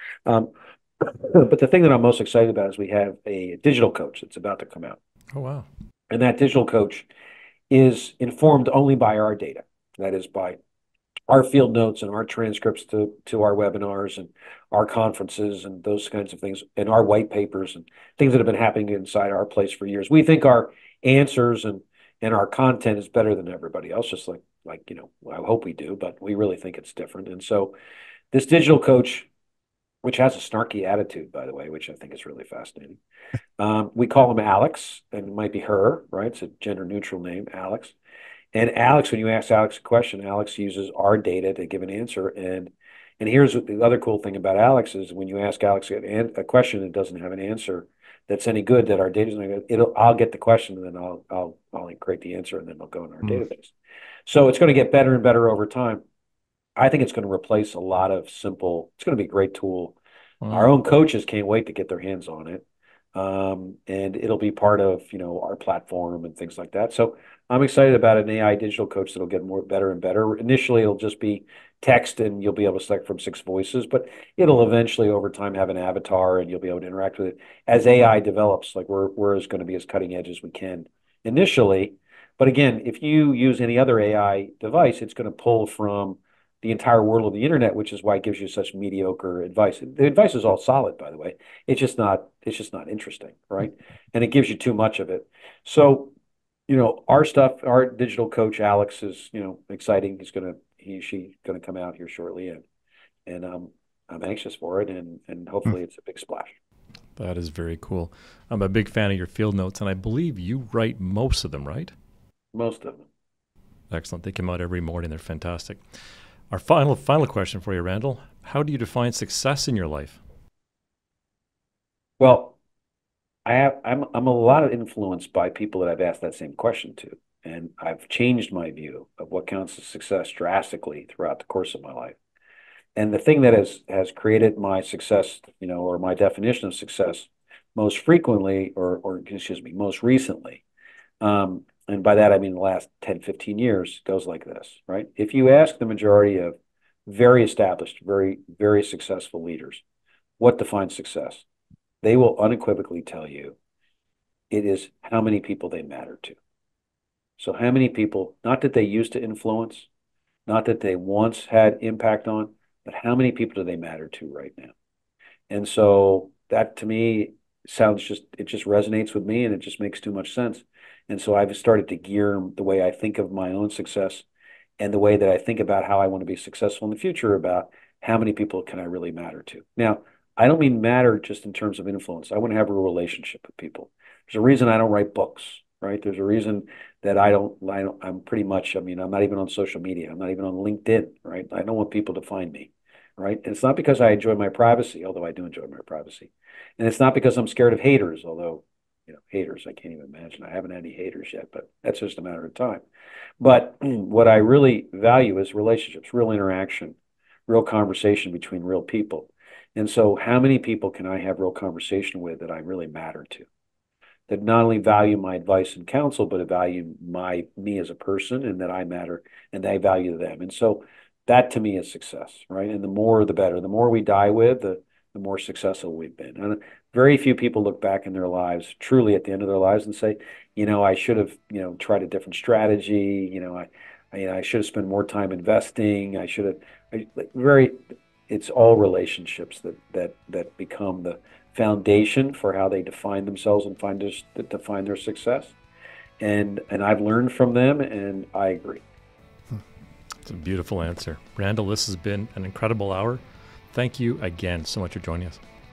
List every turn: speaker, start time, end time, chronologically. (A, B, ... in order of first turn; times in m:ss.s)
0:00.3-0:05.0 A
0:05.3-0:05.7 B
0:06.1-0:07.1 A
0:07.7-0:10.6 A
0:11.3-0:27.7 A
0:28.3-0:29.3 A
0:30.0-0:33.0 A
0:33.6-0:38.0 A
0:38.5-0:53.7 A
0:54.3-0:56.0 A
0:56.8-1:00.0 A
1:00.4-1:00.7 B
1:00.5-1:02.6 A
1:03.2-1:36.1 A
1:36.7-1:42.6 A
1:43.3-1:46.6 A
1:47.2-1:51.9 B
1:52.5-1:53.1 A
1:53.9-1:55.8 B
1:56.5-2:00.2 B
2:02.2-2:02.6 A
2:03.4-2:12.2 A
2:13.0-2:20.6 A
2:21.2-2:26.6 A
2:27.1-2:29.8 A
2:30.4-2:31.4 A
2:32.0-2:33.6 A
2:34.5-2:36.4 A
2:37.4-2:39.9 A
2:40.5-2:44.7 A
2:45.5-2:54.2 A
2:54.8-3:22.8 A
3:23.4-3:27.0 A
3:27.5-3:33.5 A
3:34.3-4:05.6 A
4:06.2-4:08.8 A
4:10.2-4:13.2 B
4:13.7-4:15.4 B